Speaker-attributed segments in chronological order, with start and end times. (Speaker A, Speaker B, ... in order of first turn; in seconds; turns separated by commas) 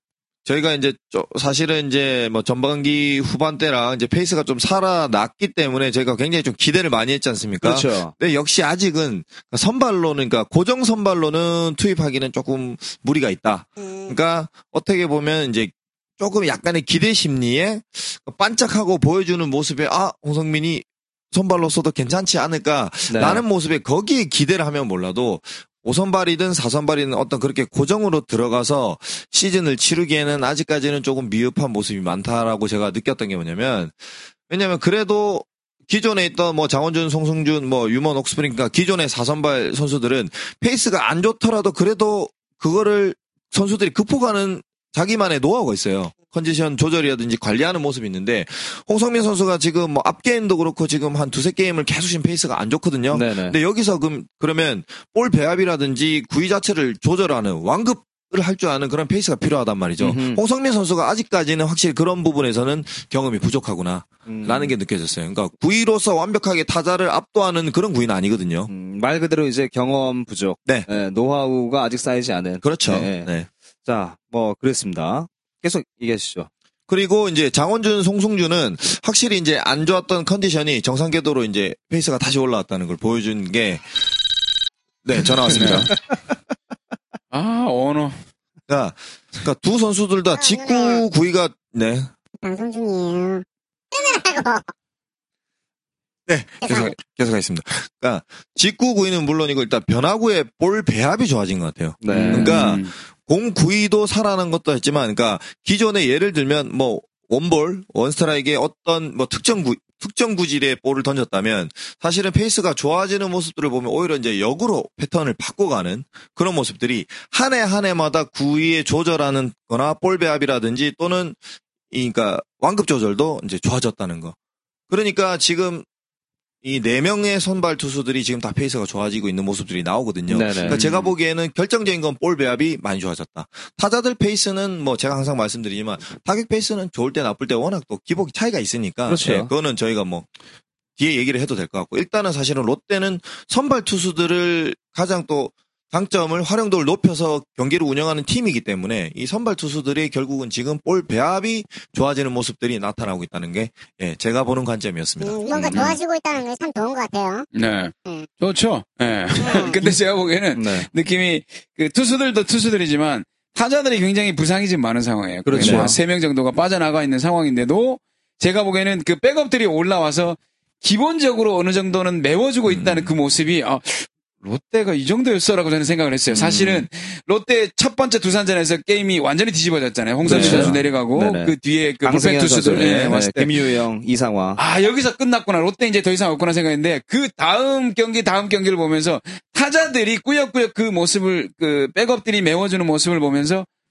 Speaker A: 0.4-68.7, Speaker B: 7.6-8.1, Speaker C: 13.8-14.1, Speaker B: 23.1-23.4, Speaker B: 53.1-53.6, Speaker B: 60.0-60.4, Speaker B: 64.2-64.7, Speaker B: 68.7-73.3, Speaker A: 72.6-73.5, Speaker B: 73.8-76.5, Speaker A: 76.9-83.8, Speaker A: 85.0-85.9, Speaker D: 85.5-85.9, Speaker D: 87.3-88.2, Speaker A: 88.7-92.1, Speaker C: 90.3-91.0, Speaker C: 92.4-94.7, Speaker A: 96.3-121.4, Speaker C: 96.6-96.9, Speaker B: 102.0-102.6, Speaker D: 102.1-102.9, Speaker A: 121.9-124.3, Speaker A: 124.9-125.8, Speaker A: 126.6-140.3, Speaker B: 130.3-130.8, Speaker D: 130.6-131.1, Speaker B: 139.1-139.5, Speaker A: 140.9-155.9, Speaker C: 155.2-157.5, Speaker D: 155.6-156.0, Speaker D: 157.5-183.7, Speaker C: 159.4-159.8, Speaker B: 160.5-160.9, Speaker B: 165.4-166.0, Speaker A: 165.6-165.9, Speaker A: 172.7-173.1, Speaker B: 176.3-176.8, Speaker B: 180.2-184.6, Speaker A: 180.2-180.8, Speaker A: 182.8-183.1, Speaker D: 184.6-193.7